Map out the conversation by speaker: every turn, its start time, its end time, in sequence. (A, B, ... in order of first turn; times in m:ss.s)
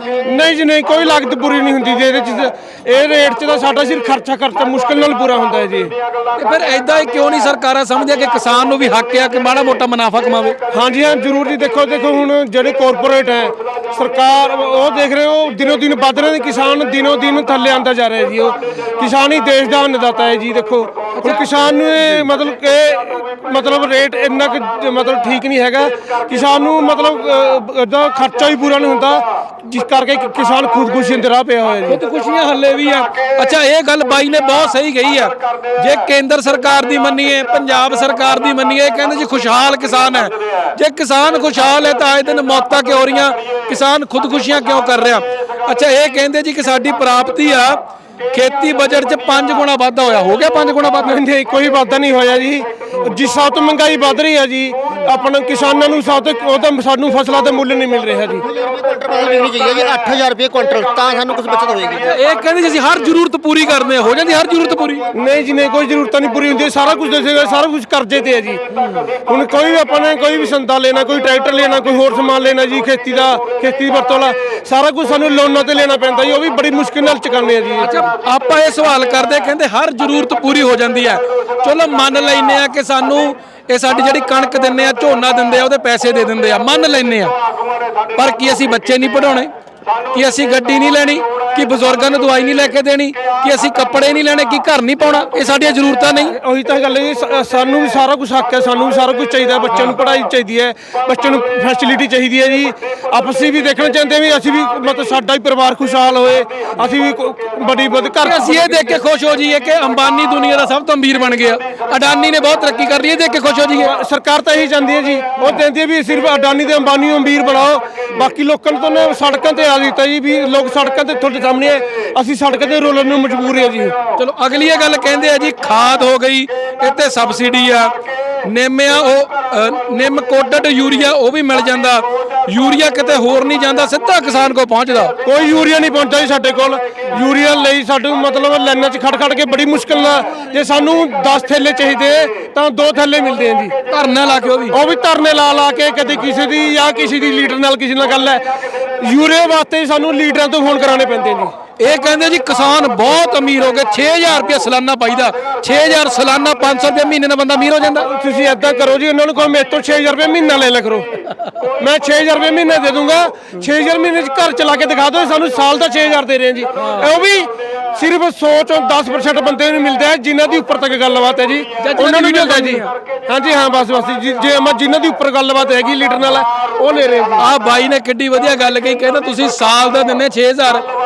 0:00.2-0:05.9 A
0:06.4-0:10.6 B
0:10.7-0:32.0 A
0:21.2-0:22.3 B
0:31.8-0:47.8 B
0:48.3-0:51.2 B
0:51.0-0:58.4 A
0:58.4-1:02.2 C
1:01.9-1:05.0 B
1:05.1-1:08.6 A
1:09.3-1:18.1 A
1:17.8-1:27.3 B
1:28.1-1:29.5 B
1:30.1-1:36.4 B
1:36.3-1:49.0 A
1:48.2-1:53.9 B
1:53.8-2:03.9 A
2:04.2-2:07.9 B
2:08.4-2:15.1 B
2:15.2-2:23.7 A
2:23.9-2:24.8 B
2:24.7-2:28.4 A
2:29.0-2:31.5 A
2:31.8-2:38.1 B
2:38.0-2:41.1 A
2:41.6-2:57.5 A
2:46.7-2:47.1 B
2:51.8-2:52.9 B
2:57.4-3:00.8 B